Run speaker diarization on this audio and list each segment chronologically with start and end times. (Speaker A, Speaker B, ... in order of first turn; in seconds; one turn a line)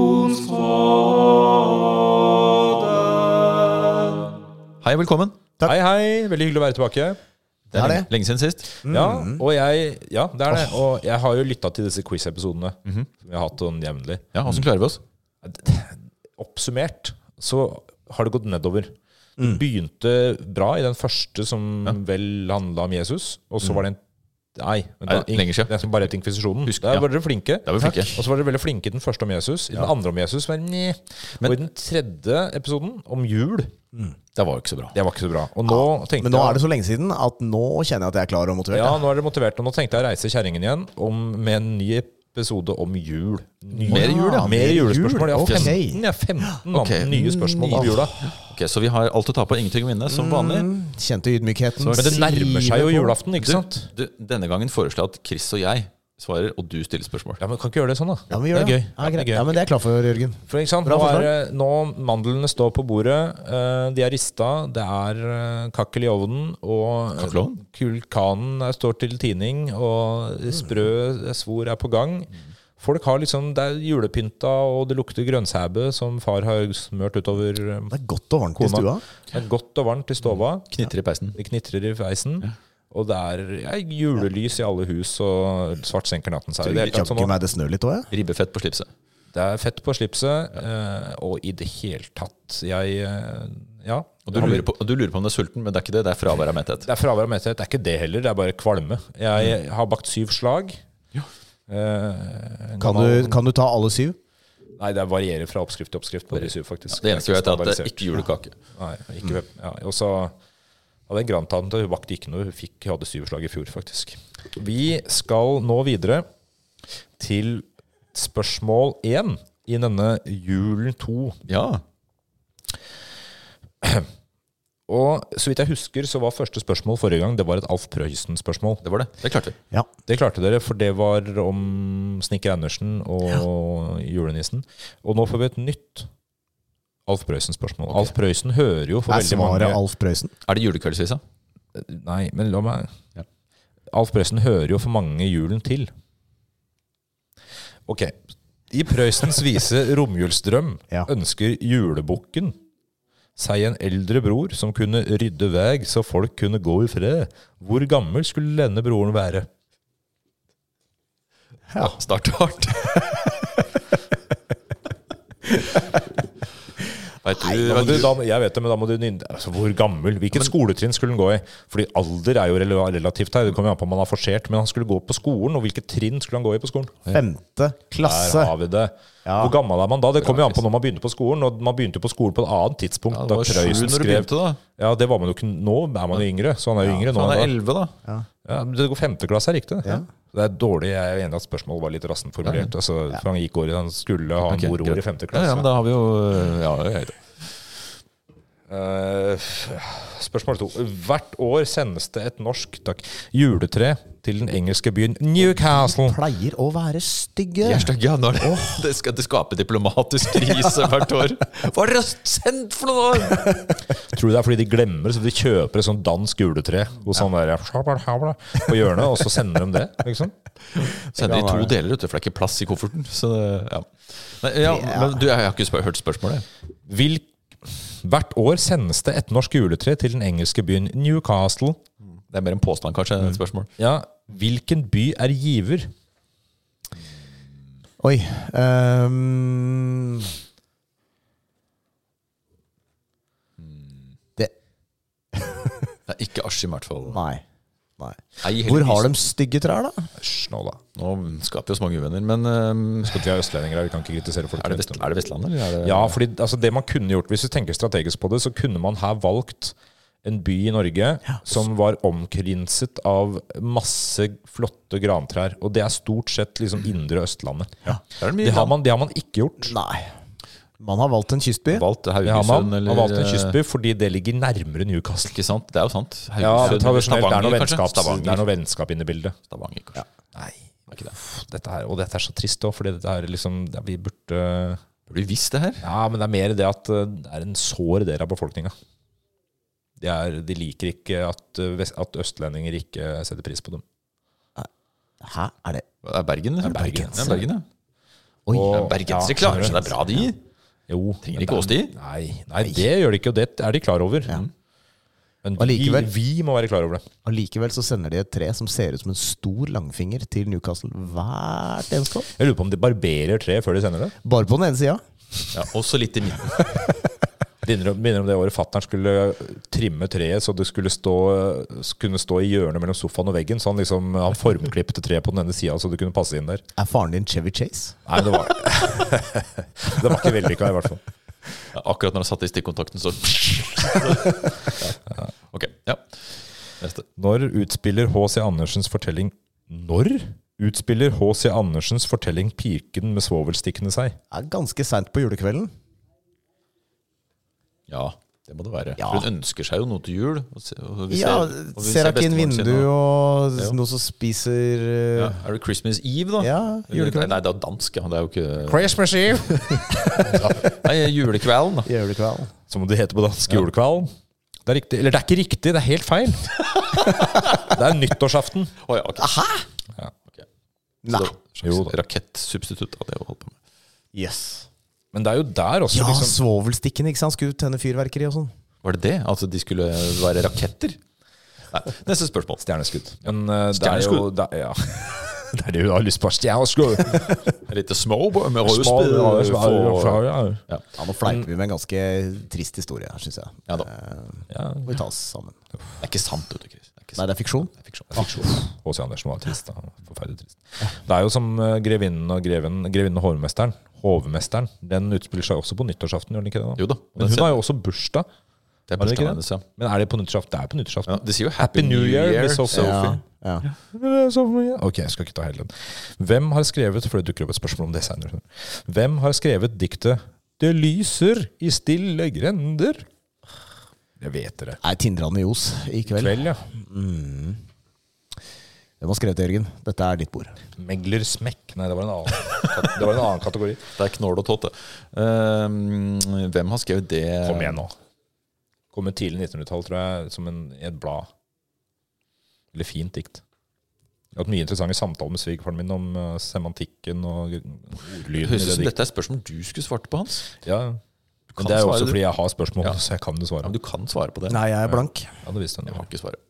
Speaker A: 4.8-5.4
Speaker B: 5.6-7.2
Speaker A: 7.7-8.8
Speaker C: 7.7-8.1
Speaker C: 8.8-9.4
Speaker B: 8.8-14.5
Speaker A: 14.3-15.0
Speaker B: 15.4-24.0
Speaker B: 24.6-33.7
Speaker A: 25.1-25.9
Speaker A: 26.6-27.1
Speaker A: 27.6-28.2
Speaker A: 34.3-35.0
Speaker B: 34.9-36.6
Speaker C: 35.7-39.0
Speaker B: 38.7-48.1
Speaker A: 43.8-44.7
Speaker C: 43.9-46.0
Speaker A: 45.4-45.8
Speaker A: 46.7-50.7
Speaker C: 50.1-53.1
Speaker A: 51.8-52.2
Speaker B: 51.9-53.9
Speaker A: 53.4-57.4
Speaker B: 57.4-59.6
Speaker C: 58.3-61.3
Speaker B: 60.5-77.9
Speaker A: 67.2-67.6
Speaker C: 77.9-79.0
Speaker B: 78.5-80.7
Speaker A: 80.2-81.4
Speaker B: 81.3-87.3
Speaker A: 86.6-87.0
Speaker C: 86.7-88.1
Speaker A: 88.1-88.9
Speaker B: 89.3-94.6
Speaker A: 94.2-96.9
Speaker B: 96.8-100.8
Speaker B: 101.7-103.4
Speaker C: 102.8-104.2
Speaker B: 104.8-108.0
Speaker A: 106.3-108.5
Speaker B: 108.8-110.3
Speaker B: 111.1-116.2
Speaker B: 117.2-121.4
Speaker A: 121.5-121.8
Speaker B: 124.9-128.8
Speaker A: 128.8-129.6
Speaker B: 130.1-136.1
Speaker B: 137.1-139.8
Speaker C: 139.1-140.3
Speaker A: 140.4-141.2
Speaker B: 141.7-142.9
Speaker B: 143.9-145.9
Speaker B: 147.9-148.1
Speaker B: 148.7-152.6
Speaker B: 153.4-159.5
Speaker A: 161.7-163.4
Speaker A: 167.2-168.2
Speaker B: 167.7-177.1
Speaker C: 177.1-178.6
Speaker B: 178.0-187.5
Speaker C: 179.2-179.6
Speaker A: 180.2-180.6
Speaker A: 183.1-184.6
Speaker A: 187.0-187.9
Speaker B: 188.4-195.7
Speaker A: 192.4-192.7
Speaker A: 194.5-197.5
Speaker B: 198.7-206.2
Speaker C: 205.7-207.9
Speaker A: 207.6-213.8
Speaker C: 208.4-208.8
Speaker B: 213.9-220.3
Speaker A: 220.7-226.4
Speaker C: 221.2-221.7
Speaker C: 224.6-225.2
Speaker B: 226.9-231.8
Speaker A: 232.3-233.7
Speaker B: 233.8-235.9
Speaker C: 238.0-240.4
Speaker A: 243.6-244.0
Speaker C: 245.3-245.7
Speaker A: 246.1-247.2
Speaker C: 247.1-247.4
Speaker C: 248.0-250.1
Speaker A: 248.4-249.1
Speaker B: 250.2-250.8
Speaker A: 250.9-253.3
Speaker B: 253.0-255.1
Speaker A: 254.6-256.2
Speaker B: 255.8-269.8
Speaker A: 268.1-268.7
Speaker C: 269.6-270.1
Speaker C: 270.8-271.9
Speaker A: 271.7-273.6
Speaker B: 272.2-275.4
Speaker A: 275.2-278.5
Speaker B: 276.4-279.3
Speaker A: 279.5-280.0
Speaker B: 280.3-284.8
Speaker A: 285.1-285.9
Speaker B: 285.8-288.7
Speaker B: 290.0-293.8
Speaker C: 295.2-295.8
Speaker A: 296.0-297.6
Speaker B: 296.6-297.4
Speaker C: 296.8-297.4
Speaker C: 298.5-298.8
Speaker B: 298.5-299.9
Speaker A: 298.7-300.4
Speaker C: 299.6-300.2
Speaker B: 300.9-304.4
Speaker A: 301.2-301.9
Speaker B: 305.4-307.1
Speaker C: 305.6-306.1
Speaker C: 307.2-312.3
Speaker B: 312.3-314.1
Speaker C: 314.2-315.6
Speaker A: 315.5-316.7
Speaker C: 316.6-317.1
Speaker B: 317.6-326.6
Speaker C: 326.8-328.0
Speaker B: 328.1-331.0
Speaker A: 331.7-335.0
Speaker A: 335.5-337.1
Speaker B: 337.2-344.2
Speaker C: 344.3-345.7
Speaker A: 347.9-353.0
Speaker C: 349.0-349.3
Speaker C: 351.1-355.4
Speaker A: 355.1-358.9
Speaker C: 356.4-357.4
Speaker C: 358.7-360.4
Speaker A: 360.4-361.9
Speaker B: 360.4-360.7
Speaker C: 361.9-362.5
Speaker B: 362.7-364.1
Speaker B: 364.6-368.7
Speaker A: 368.8-369.4
Speaker C: 369.2-369.6
Speaker C: 371.0-371.3
Speaker A: 371.1-373.6
Speaker B: 371.6-371.9
Speaker C: 374.1-374.7
Speaker B: 375.1-376.4
Speaker C: 375.9-378.5
Speaker A: 378.8-381.0
Speaker A: 381.7-382.7
Speaker B: 382.6-387.5
Speaker A: 383.2-384.3
Speaker A: 387.6-390.8
Speaker B: 388.6-391.5
Speaker C: 390.9-395.5
Speaker B: 394.5-395.0
Speaker A: 396.0-397.2
Speaker C: 397.1-397.7
Speaker A: 397.8-398.6
Speaker B: 398.1-408.2
Speaker A: 406.8-407.6
Speaker A: 408.9-409.6
Speaker B: 409.0-413.2
Speaker A: 411.1-413.2
Speaker C: 412.7-413.6
Speaker B: 413.9-423.0
Speaker B: 424.2-424.8
Speaker C: 424.8-427.6
Speaker B: 426.1-426.6
Speaker C: 429.0-430.6
Speaker B: 430.8-433.9
Speaker A: 433.9-437.9
Speaker B: 437.4-437.9
Speaker B: 438.9-441.3
Speaker B: 442.7-443.4
Speaker B: 444.3-448.9
Speaker A: 448.4-450.5
Speaker B: 450.6-451.0
Speaker A: 451.5-452.2
Speaker B: 451.6-453.7
Speaker A: 453.6-454.6
Speaker C: 454.5-455.4
Speaker B: 454.9-456.1
Speaker A: 455.9-456.4